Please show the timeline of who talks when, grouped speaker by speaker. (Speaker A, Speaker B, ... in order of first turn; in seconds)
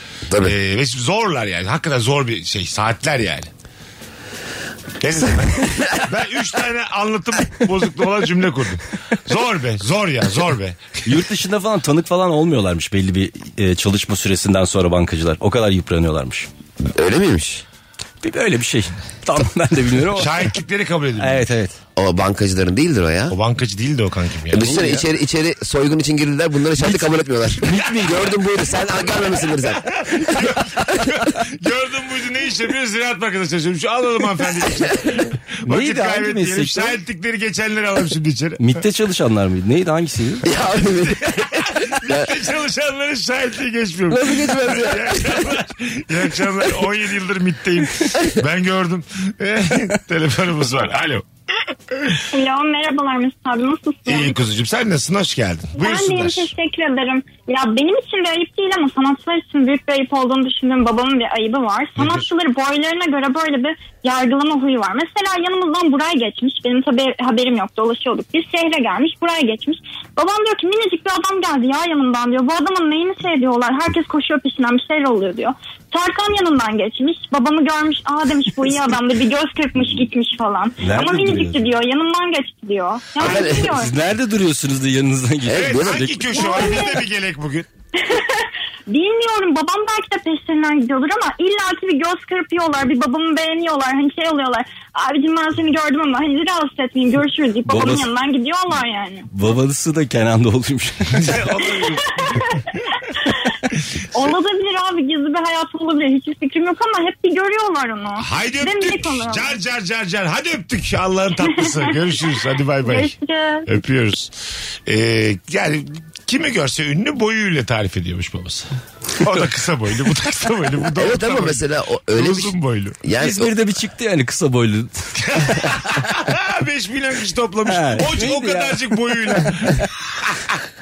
Speaker A: 0.4-3.5, 5.0-10.8, 20.1-21.4, 23.3-24.7, 29.8-38.6, 41.3-51.2, 51.9-52.2, 54.1-56.5, 62.0-62.2, 85.5-87.7, 101.1-102.5, 108.2-113.1, 113.7-114.3, 114.9-118.7, 119.2-123.0, 125.3-130.4
Speaker B: 11.1-16.5, 18.2-20.5, 21.2-21.8, 24.6-25.0, 27.6-28.4, 35.6-37.0, 38.6-40.5, 80.8-81.7, 83.2-86.5, 97.7-98.1, 99.3-101.4, 123.2-126.2, 127.7-129.2
Speaker C: 16.9-17.6, 21.9-23.4, 24.5-30.2, 40.4-42.3, 44.1-45.5, 83.2-83.8, 85.5-86.0, 121.0-123.5
Speaker D: 52.3-54.4, 55.8-83.9, 86.4-87.0, 88.0-99.3, 104.1-109.5, 111.5-111.9, 112.8-113.7